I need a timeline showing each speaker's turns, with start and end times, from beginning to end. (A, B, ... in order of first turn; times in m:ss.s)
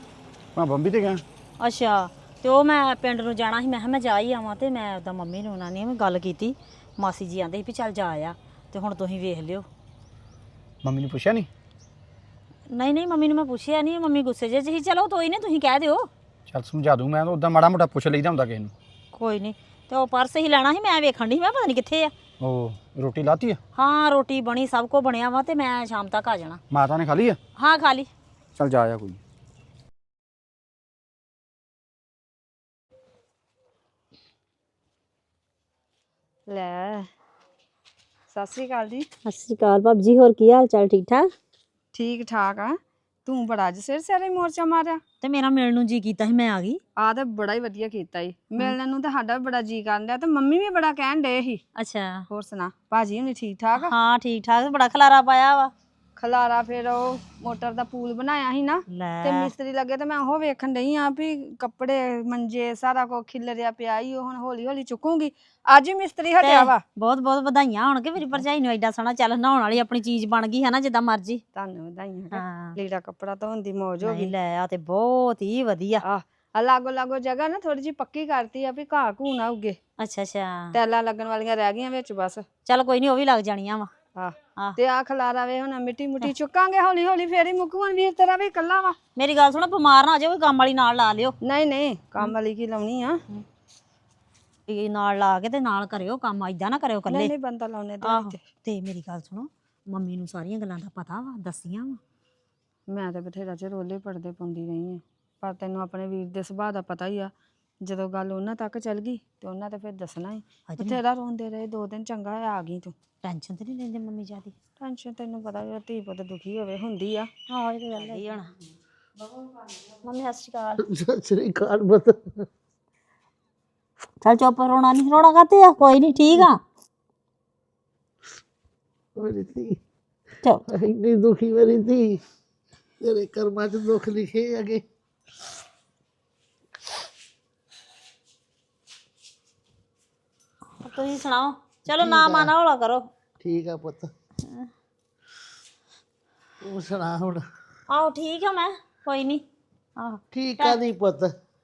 0:00.5-0:01.2 A
0:01.6-0:09.6 B
0:10.8-0:11.5 A
0:12.7-0:16.1 B
0:16.5-0:18.7 A
0:19.1-0:22.1 B
0:22.4-0:23.6 A
0:23.7-0:26.6 B
0:26.7-0:27.4 A
0:27.6-0:28.1 B
0:28.5-0:29.2 A
0:36.5-0:37.1 C
0:38.3-0:39.1 C
0:39.2-0:41.3 B
0:41.9-0:45.0 C
0:45.2-0:46.8 B
0:47.0-0:51.6 C
0:51.8-0:52.2 B
0:52.3-0:53.9 C
0:53.8-0:55.7 B
0:56.2-1:06.8 C
0:58.9-0:59.5 B
1:06.4-1:11.4 B
1:11.5-1:14.3 C
1:12.3-1:12.8 B
1:14.0-1:16.0 B
1:16.0-1:19.8 C
1:20.0-1:20.8 B
1:20.7-1:22.4 C
1:22.6-1:23.9 B
1:24.2-1:29.0 C
1:29.2-1:31.4 B
1:31.4-1:33.2 C
1:34.7-1:37.3 B
1:37.1-1:38.4 C
1:38.0-1:42.0 B
1:42.9-1:47.3 C
1:47.8-1:52.9 C
1:50.7-1:51.0 B
1:53.2-1:54.5 B
1:54.8-1:57.3 C
1:57.5-1:58.5 B
1:58.0-1:58.4 C
1:59.2-2:00.0 C
2:00.0-2:00.8 B
2:00.8-2:02.4 D
2:04.2-2:06.6 B
2:09.2-2:09.8 D
2:10.7-2:12.2 D
2:13.0-2:14.8 D
2:20.8-2:23.1 B
2:21.9-2:22.5 D
2:23.4-2:24.1 D
2:24.4-2:24.7 B
2:26.6-2:27.4 D
2:27.9-2:29.4 B
2:30.0-2:30.8 B
2:30.3-2:31.3 D